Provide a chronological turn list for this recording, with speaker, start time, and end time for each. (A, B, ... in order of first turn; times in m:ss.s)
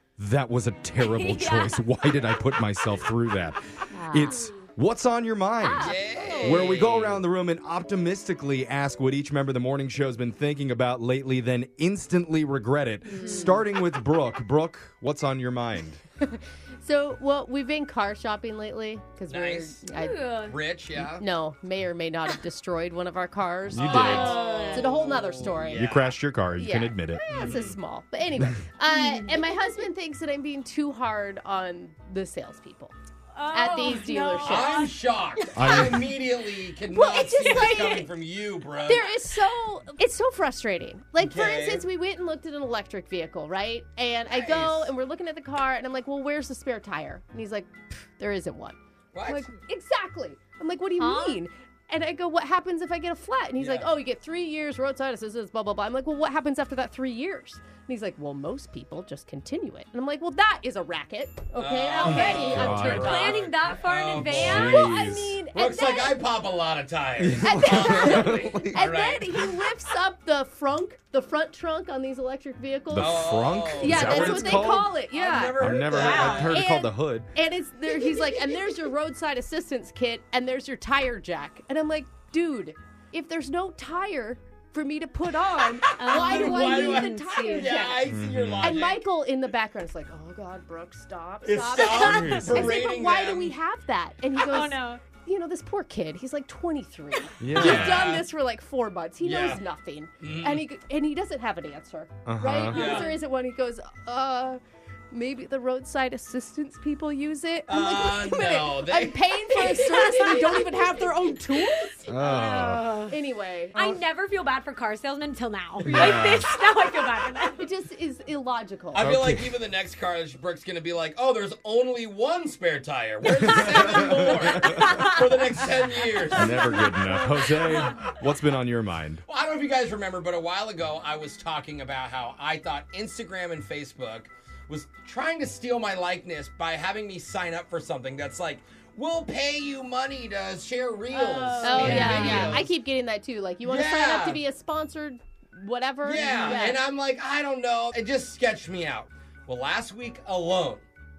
0:00.2-0:16.0 A
0:01.0-0:01.8 B
0:03.9-0:04.5 C
0:05.6-0:06.7 C
0:05.8-0:07.2 D
0:13.1-0:13.6 B
0:13.1-0:13.7 C
0:16.2-0:20.4 C
0:19.3-0:19.9 D
0:19.9-0:20.6 B
0:20.5-0:21.3 D
0:21.1-0:25.9 C
0:23.7-0:24.4 A
0:23.8-0:26.2 D
0:23.9-0:25.0 B
0:25.6-0:27.5 A
0:26.6-0:32.9 C
0:27.3-0:27.8 D
0:28.9-0:29.4 B
0:33.3-0:36.0 B
0:33.5-0:34.8 C
0:34.4-0:39.2 D
0:35.5-0:36.1 A
0:36.9-0:38.1 C
0:37.5-0:37.8 B
0:38.7-1:03.4 C
0:41.2-0:41.8 D
0:44.3-0:44.9 D
0:49.1-0:49.5 D
0:51.0-0:51.4 B
0:53.6-0:54.0 D
1:01.5-1:04.7 D
1:01.9-1:04.9 B
1:02.2-1:03.3 A
1:04.3-1:05.4 A
1:04.5-1:06.2 C
1:05.5-1:09.6 D
1:07.2-1:08.8 A
1:07.4-1:28.1 C
1:12.9-1:15.0 A
1:13.0-1:16.6 D
1:15.5-1:17.3 A
1:16.0-1:16.6 B
1:18.1-1:18.3 D
1:25.9-1:27.8 B
1:26.0-1:29.0 D
1:28.0-1:28.8 A
1:28.6-1:44.6 C
1:31.4-1:33.5 D
1:31.8-1:32.6 B
1:32.1-1:32.8 A
1:34.3-1:35.0 B
1:37.4-1:38.2 A
1:37.6-1:38.2 D
1:39.2-1:39.6 D
1:40.2-1:40.6 D
1:42.2-1:42.9 A
1:42.7-1:43.2 D
1:45.1-1:52.1 C
1:47.7-1:49.3 D
1:49.5-1:53.2 B
1:52.1-1:53.0 A
1:53.1-1:54.0 C
1:53.7-1:57.6 B
1:55.8-1:56.5 A
1:57.6-1:59.1 C
1:58.9-2:06.7 D
1:59.0-1:59.5 A
2:03.2-2:05.6 B
2:03.6-2:04.9 A
2:06.2-2:08.1 B
2:06.3-2:09.2 A
2:09.2-2:22.8 D
2:21.1-2:22.6 B
2:21.6-2:26.8 C
2:23.6-2:24.4 D
2:26.0-2:30.8 D
2:26.2-2:26.6 B